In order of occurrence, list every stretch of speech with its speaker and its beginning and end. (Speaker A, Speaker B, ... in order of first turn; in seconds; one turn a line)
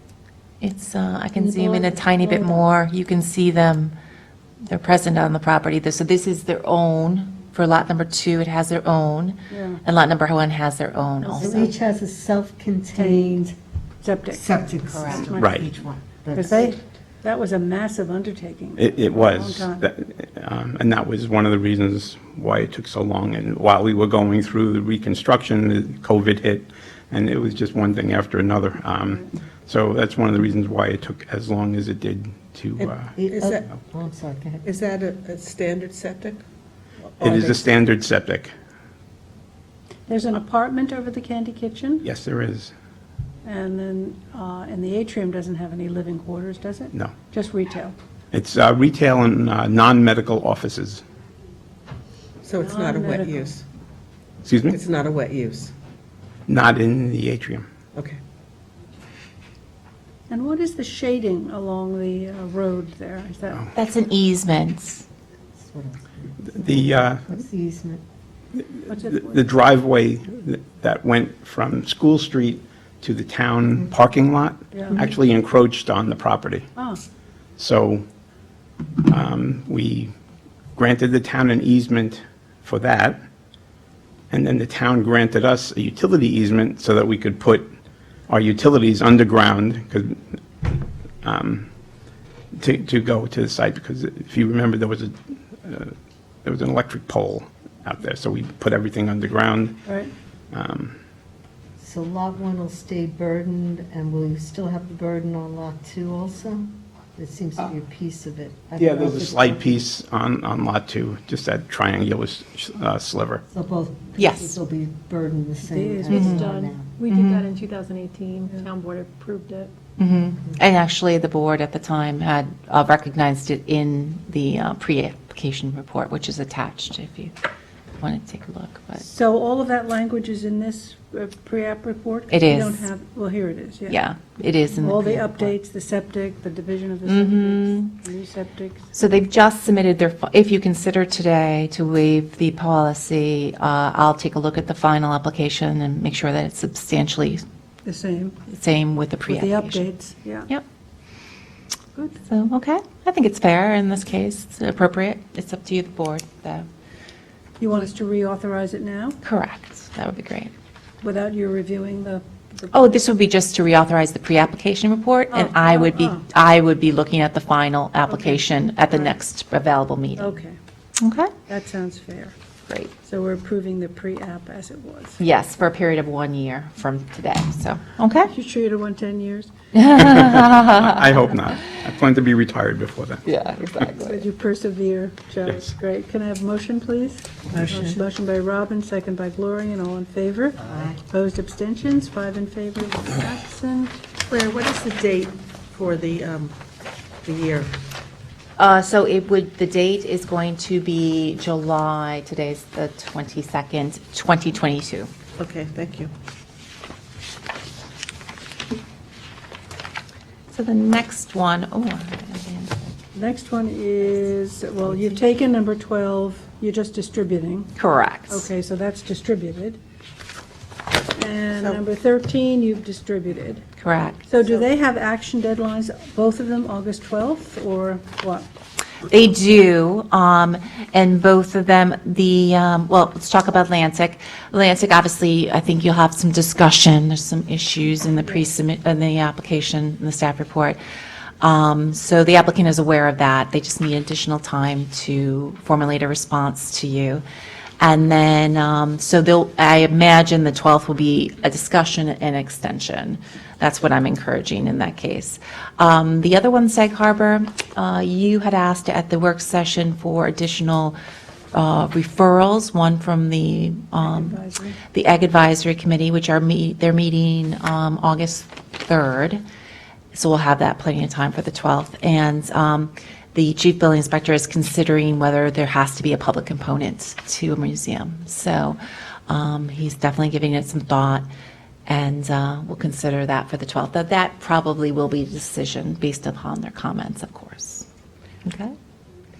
Speaker A: 0.6-3.9
Speaker B: 1.4-2.6
Speaker A: 4.7-11.7
Speaker C: 9.5-9.8
Speaker C: 11.2-11.7
Speaker B: 11.4-13.6
Speaker C: 12.9-13.4
Speaker C: 14.0-14.4
Speaker B: 14.3-16.8
Speaker C: 15.0-15.7
Speaker D: 15.4-15.7
Speaker C: 16.4-19.9
Speaker D: 18.8-33.1
Speaker E: 32.8-33.7
Speaker B: 33.2-34.6
Speaker E: 34.6-36.4
Speaker E: 37.2-37.6
Speaker D: 37.2-38.5
Speaker C: 40.1-42.0
Speaker D: 42.0-42.7
Speaker C: 43.5-47.9
Speaker D: 48.3-51.0
Speaker E: 52.4-53.6
Speaker C: 52.6-53.5
Speaker D: 54.4-54.8
Speaker E: 54.7-55.7
Speaker D: 56.5-57.7
Speaker C: 60.3-63.7
Speaker A: 63.7-65.0
Speaker B: 65.6-68.0
Speaker D: 66.6-67.3
Speaker D: 68.8-76.7
Speaker C: 68.9-69.4
Speaker C: 74.7-75.0
Speaker C: 76.8-77.0
Speaker D: 77.6-78.0
Speaker D: 79.1-80.1
Speaker D: 80.8-83.2
Speaker D: 84.3-87.7
Speaker D: 88.3-90.2
Speaker D: 91.2-91.7
Speaker D: 92.5-95.9
Speaker D: 96.5-99.8
Speaker C: 99.9-100.1
Speaker D: 100.5-101.0
Speaker B: 101.8-109.8
Speaker D: 108.8-113.4
Speaker B: 113.5-117.0
Speaker A: 114.2-114.6
Speaker C: 115.7-116.7
Speaker A: 116.1-116.4
Speaker F: 116.3-119.7
Speaker A: 117.1-117.5
Speaker C: 118.5-119.2
Speaker A: 120.0-127.3
Speaker A: 128.0-129.1
Speaker C: 129.0-134.0
Speaker A: 132.3-132.9
Speaker A: 133.9-135.2
Speaker C: 134.8-138.9
Speaker A: 137.1-138.0
Speaker A: 138.9-147.4
Speaker C: 147.8-148.3
Speaker A: 148.5-149.9
Speaker C: 149.3-150.5
Speaker A: 152.2-156.7
Speaker C: 157.6-159.2
Speaker A: 159.2-160.5
Speaker C: 161.0-162.7
Speaker A: 162.7-170.4
Speaker C: 165.3-166.2
Speaker C: 170.2-170.6
Speaker A: 171.0-171.3
Speaker C: 171.5-172.3
Speaker C: 173.0-175.2
Speaker A: 175.2-178.3
Speaker C: 178.3-179.5
Speaker A: 179.8-180.9
Speaker D: 180.0-183.2
Speaker A: 183.2-184.2
Speaker C: 183.8-194.0
Speaker B: 187.5-187.9
Speaker B: 190.6-191.0
Speaker E: 194.3-196.6
Speaker E: 197.2-197.7
Speaker A: 198.6-205.1
Speaker E: 205.4-206.1
Speaker A: 210.5-212.8
Speaker C: 213.1-217.7
Speaker A: 217.8-218.5
Speaker C: 218.3-219.8
Speaker C: 221.2-223.6
Speaker A: 223.8-224.3
Speaker C: 224.3-228.5
Speaker A: 229.1-240.8
Speaker A: 241.4-247.2
Speaker A: 247.8-261.0
Speaker A: 261.5-264.4
Speaker C: 264.0-264.8
Speaker A: 264.9-269.4
Speaker A: 270.1-281.2
Speaker A: 281.9-287.9
Speaker A: 288.4-288.8